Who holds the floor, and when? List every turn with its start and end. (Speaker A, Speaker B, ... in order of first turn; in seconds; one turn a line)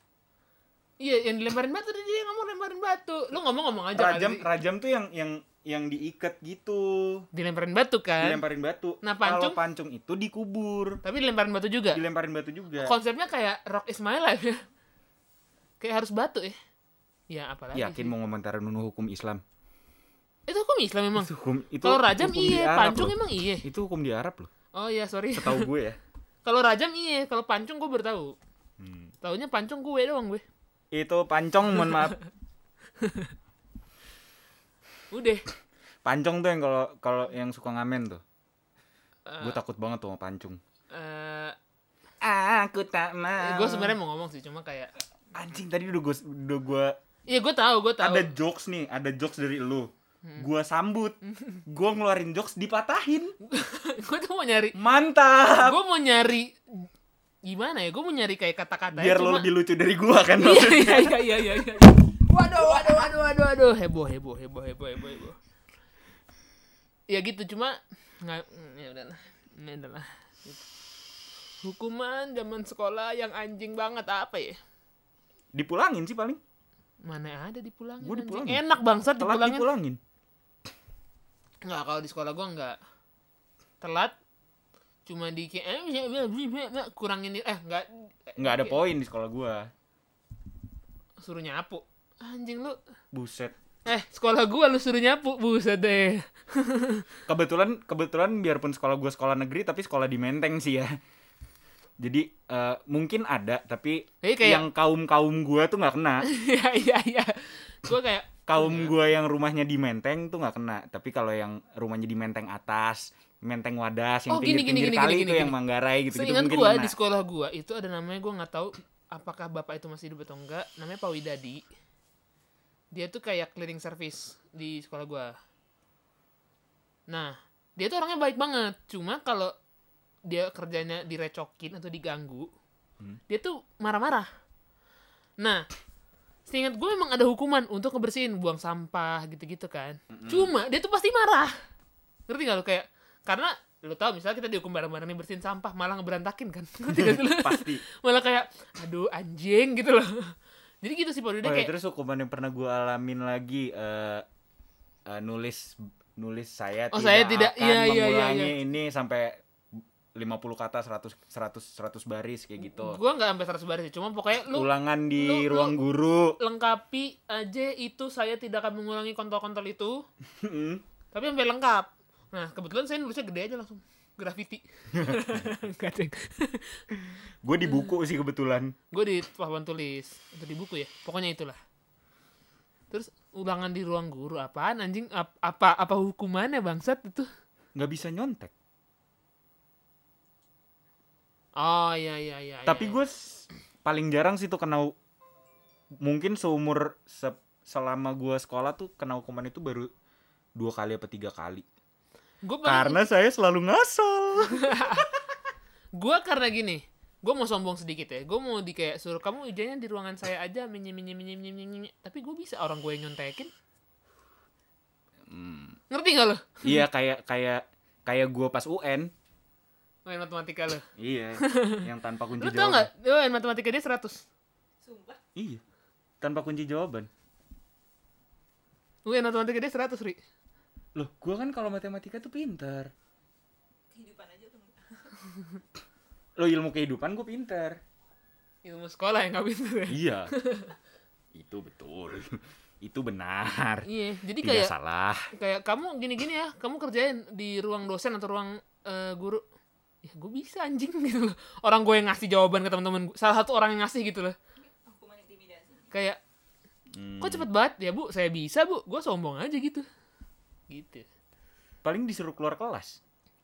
Speaker A: 1.0-4.5
Speaker B: 3.9-7.3
Speaker A: 7.3-8.4
Speaker B: 8.2-11.0
Speaker A: 9.0-9.6
Speaker A: 11.0-12.0
Speaker B: 11.9-12.9
Speaker A: 12.8-14.6
Speaker A: 15.8-16.6
Speaker A: 17.3-18.1
Speaker B: 17.7-19.4
Speaker A: 20.5-21.3
Speaker B: 21.1-24.5
Speaker A: 21.8-23.6
Speaker A: 24.7-25.7
Speaker B: 25.3-26.0
Speaker A: 26.4-28.3
Speaker B: 28.8-29.1
Speaker A: 29.2-30.4
Speaker B: 30.9-32.1
Speaker A: 33.0-33.3
Speaker A: 35.1-35.4
Speaker B: 36.0-38.2
Speaker A: 39.3-39.6
Speaker B: 39.4-40.6
Speaker A: 40.9-41.5
Speaker B: 42.2-44.0
Speaker A: 43.4-44.9
Speaker B: 45.3-47.0
Speaker A: 47.3-48.3
Speaker B: 48.0-53.3
Speaker A: 51.3-51.6
Speaker A: 53.4-54.8
Speaker B: 54.7-55.8
Speaker A: 55.5-56.9
Speaker A: 57.5-59.5
Speaker B: 58.9-61.7
Speaker A: 60.4-65.3
Speaker A: 67.1-70.6
Speaker A: 71.6-74.6
Speaker B: 75.5-76.4
Speaker A: 77.0-79.7
Speaker B: 78.0-78.6
Speaker B: 79.2-80.0
Speaker A: 81.6-82.8
Speaker A: 83.8-84.2
Speaker A: 85.0-88.8
Speaker B: 88.4-89.7
Speaker A: 91.2-92.8
Speaker B: 93.1-93.5
Speaker A: 93.8-97.0
Speaker B: 97.3-100.9
Speaker B: 102.0-106.2
Speaker A: 104.2-104.6
Speaker A: 106.2-109.0
Speaker B: 108.5-116.9
Speaker A: 114.3-115.5
Speaker A: 116.1-121.6
Speaker A: 122.9-125.3
Speaker A: 127.1-129.5
Speaker A: 130.3-132.5
Speaker A: 133.3-134.3
Speaker A: 135.4-135.7
Speaker A: 136.5-141.5
Speaker B: 140.1-140.5
Speaker A: 142.3-151.7
Speaker B: 146.9-147.8
Speaker B: 151.4-154.2
Speaker B: 155.1-163.0
Speaker A: 156.9-158.6
Speaker A: 162.6-165.7
Speaker B: 164.5-166.4
Speaker A: 166.4-170.0
Speaker B: 170.4-170.8
Speaker A: 171.1-176.9
Speaker B: 174.9-175.5
Speaker B: 177.1-178.7
Speaker A: 177.6-177.9
Speaker A: 178.9-181.6
Speaker A: 182.9-187.3
Speaker B: 187.8-188.5
Speaker A: 191.6-193.0
Speaker B: 192.7-194.9
Speaker B: 196.0-199.9
Speaker B: 200.6-201.7
Speaker A: 202.4-203.0
Speaker B: 202.6-205.0
Speaker A: 204.5-205.1
Speaker A: 205.9-213.5
Speaker B: 215.3-215.8
Speaker A: 215.9-216.8
Speaker B: 216.6-219.1
Speaker A: 220.1-220.8
Speaker B: 220.9-222.9
Speaker A: 221.4-221.8
Speaker A: 222.4-224.2
Speaker C: 224.8-225.2
Speaker B: 225.3-225.6
Speaker B: 226.2-227.1
Speaker A: 229.0-230.2
Speaker B: 230.9-232.9
Speaker C: 233.9-235.5
Speaker B: 236.4-237.8
Speaker A: 238.6-240.8
Speaker B: 239.9-240.3
Speaker B: 241.3-243.9
Speaker A: 243.8-244.7
Speaker B: 244.4-245.3
Speaker A: 245.3-249.4
Speaker A: 250.0-254.3
Speaker C: 254.7-255.9
Speaker A: 255.9-256.2
Speaker B: 256.9-257.5
Speaker A: 257.2-259.9
Speaker A: 260.7-261.1
Speaker B: 261.8-263.0